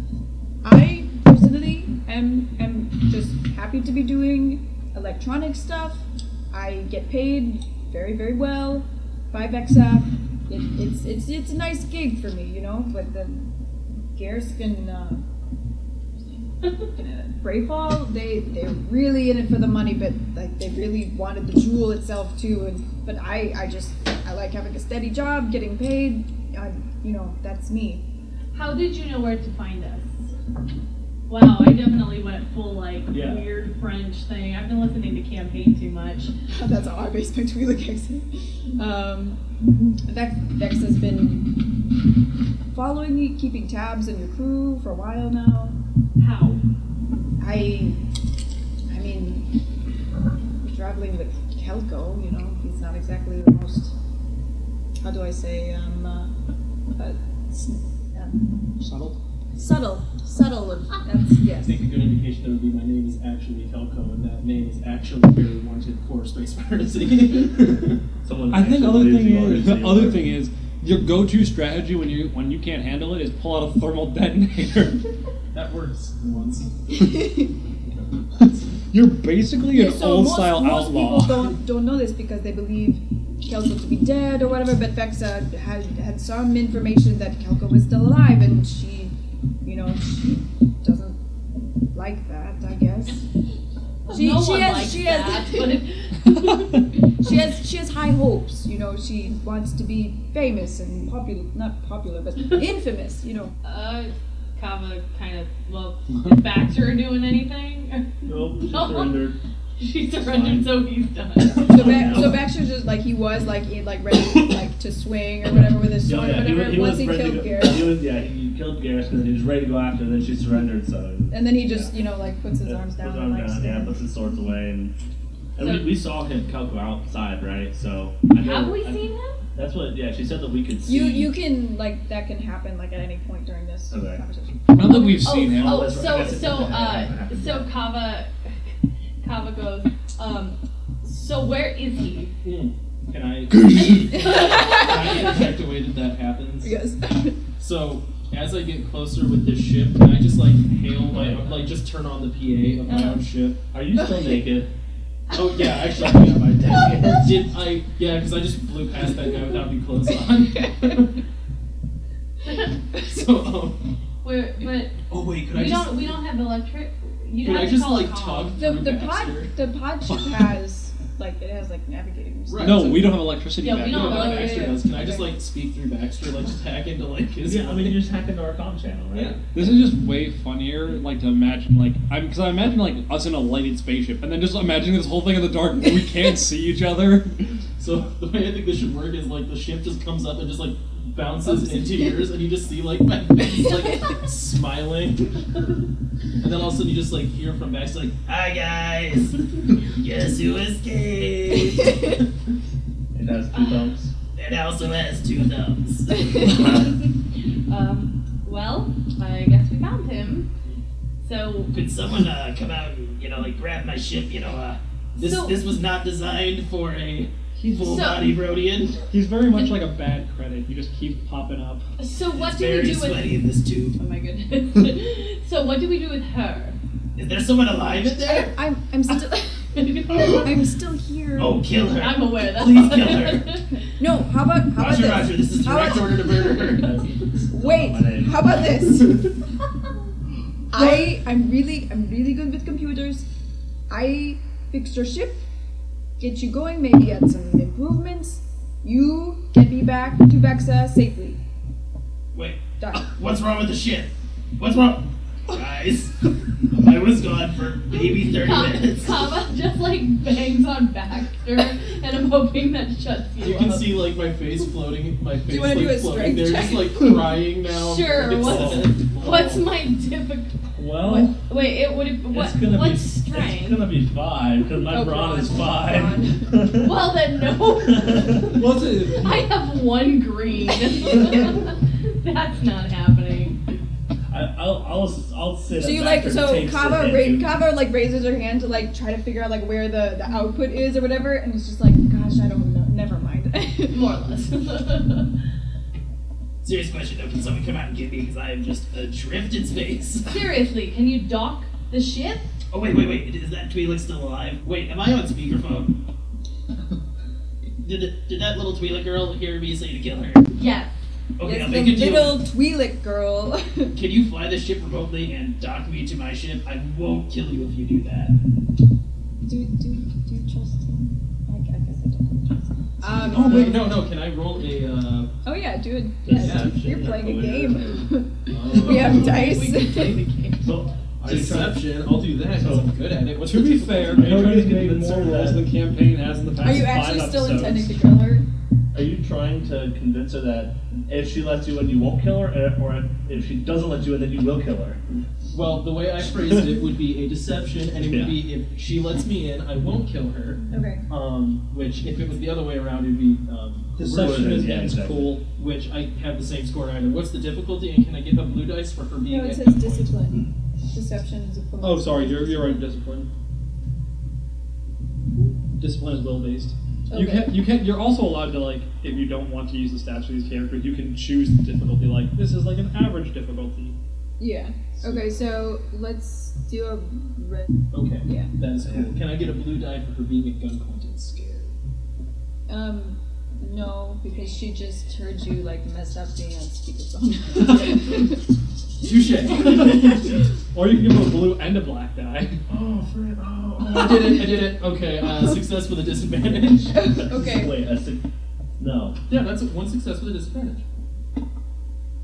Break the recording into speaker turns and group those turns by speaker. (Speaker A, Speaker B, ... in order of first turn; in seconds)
Speaker A: 0.6-13.5, 14.1-15.2, 16.2-28.0, 36.5-41.6, 42.7-45.8, 47.4-48.0, 48.9-49.5, 50.6-53.9, 55.0-56.3, 57.0-58.5, 59.5-61.8, 76.9-77.5, 79.7-91.2, 91.9-93.2, 94.1-95.8, 97.0-103.5, 111.5-118.0, 121.3-124.0, 130.8-135.1, 144.1-145.3, 146.6-147.4, 168.6-172.9, 174.0-175.3, 228.2-231.6, 234.0-236.5, 237.5-239.3, 240.7-243.3, 243.9-245.4, 246.2-251.4, 252.8-253.1, 265.5-267.3, 274.8-276.7, 285.7-294.1, 311.4-313.9, 319.4-324.0, 325.4-330.2, 336.6-338.4, 350.7-351.0, 359.3-362.8, 367.1-367.7, 374.4-377.7, 378.2-378.5, 382.7-388.4, 389.7-390.2, 393.8-394.7, 396.9-397.7
Speaker B: 28.5-30.1, 31.3-36.3, 46.2-46.6, 94.1-96.8, 103.6-109.2, 109.8-112.0, 125.6-126.0, 128.4-129.4, 134.8-138.5, 139.2-142.3, 143.8-145.2, 164.2-165.0, 165.5-168.6, 173.6-174.8, 206.6-207.0, 207.7-210.5, 211.2-211.7, 215.2-215.6, 217.8-218.2, 222.0-223.4, 224.0-226.8, 229.7-230.5, 232.0-233.6, 257.9-263.9, 267.7-273.9, 276.8-283.6, 293.9-295.3, 300.2-302.5, 310.5-310.9, 328.7-330.7
Speaker C: 33.1-33.4, 68.2-70.3, 108.2-109.4, 110.2-110.8, 111.4-112.5, 115.5-121.9, 122.6-124.9, 125.5-129.0, 129.5-131.3, 133.9-134.2, 135.3-137.7, 151.1-151.6, 153.7-154.7, 177.4-179.6, 203.1-204.1, 236.8-238.6, 268.4-268.9, 270.8-271.4, 272.3-277.2, 277.7-278.5, 284.3-287.5, 326.2-328.1, 330.6-331.9, 332.5-332.9, 334.1-335.6, 338.9-345.0, 348.0-348.4, 354.0-355.4, 397.2-398.2, 398.8-399.2
Speaker D: 58.8-59.2, 68.5-75.0, 78.4-81.5, 134.7-136.0, 143.7-144.0, 172.6-174.7, 179.5-187.5, 217.6-218.0, 219.1-221.8, 278.5-279.5, 333.4-337.9, 354.0-355.4, 361.8-363.3, 365.8-374.0, 389.6-390.1, 390.7-392.6
Speaker E: 61.6-68.0, 75.5-76.7, 142.4-146.7, 147.6-153.6, 155.3-161.2, 162.9-163.8, 165.1-166.2, 167.4-169.5, 172.5-173.3, 173.8-178.0, 179.1-179.5, 187.8-195.4, 196.4-202.2, 204.3-206.8, 211.7-219.1, 222.3-223.9, 227.2-228.5, 230.1-230.4, 231.3-233.6, 234.8-237.0, 252.3-259.2, 263.4-269.6, 296.6-300.4, 302.7-305.9, 307.8-310.5, 311.4-312.5, 313.9-318.4, 323.1-325.3, 326.3-326.8, 328.5-329.6, 331.2-335.4, 345.5-354.4, 355.6-360.1, 377.9-381.7, 389.0-390.0, 392.7-397.1, 399.3-400.8